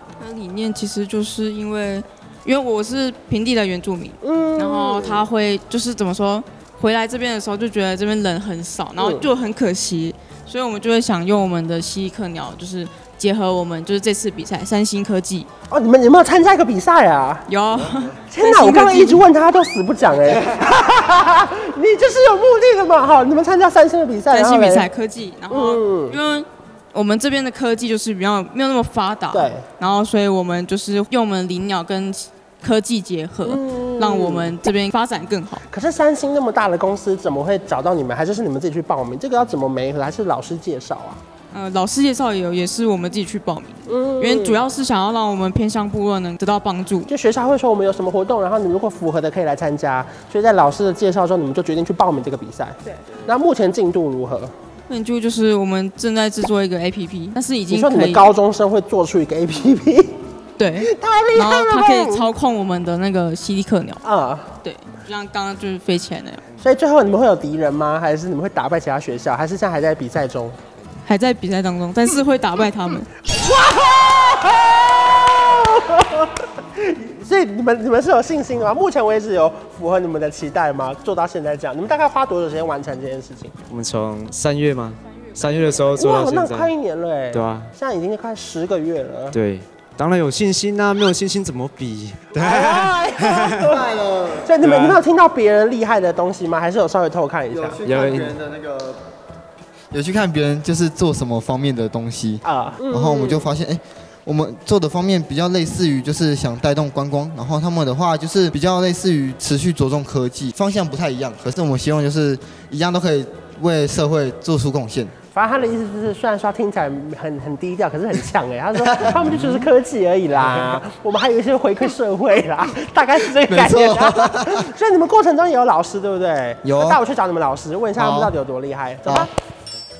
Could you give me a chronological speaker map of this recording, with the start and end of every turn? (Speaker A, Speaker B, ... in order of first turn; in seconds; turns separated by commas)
Speaker A: 0.2-15.5, Speaker B: 4.2-5.2, Speaker B: 9.0-9.3, Speaker B: 15.7-17.4, Speaker A: 17.5-19.2, Speaker B: 18.3-24.9, Speaker A: 24.3-35.6, Speaker B: 25.5-26.2, Speaker B: 29.3-29.6, Speaker B: 33.4-34.5, Speaker B: 35.7-41.2, Speaker A: 41.5-47.1, Speaker B: 43.9-44.6, Speaker B: 47.1-54.5, Speaker A: 54.9-58.3, Speaker B: 57.7-60.2, Speaker A: 60.6-64.0, Speaker B: 60.8-62.3, Speaker B: 64.0-64.5, Speaker A: 64.6-66.4, Speaker B: 66.6-70.5, Speaker A: 71.0-73.1, Speaker B: 73.3-83.5, Speaker C: 83.7-86.7, Speaker B: 85.9-89.4, Speaker C: 87.3-87.7, Speaker C: 89.3-92.4, Speaker B: 92.3-93.9, Speaker D: 92.4-95.0, Speaker B: 94.4-97.8, Speaker D: 97.5-99.0, Speaker C: 97.8-98.4, Speaker D: 99.9-115.1, Speaker B: 102.4-103.5, Speaker B: 115.3-129.3, Speaker D: 118.9-119.7, Speaker D: 123.4-124.6, Speaker D: 126.6-127.0, Speaker D: 128.0-128.3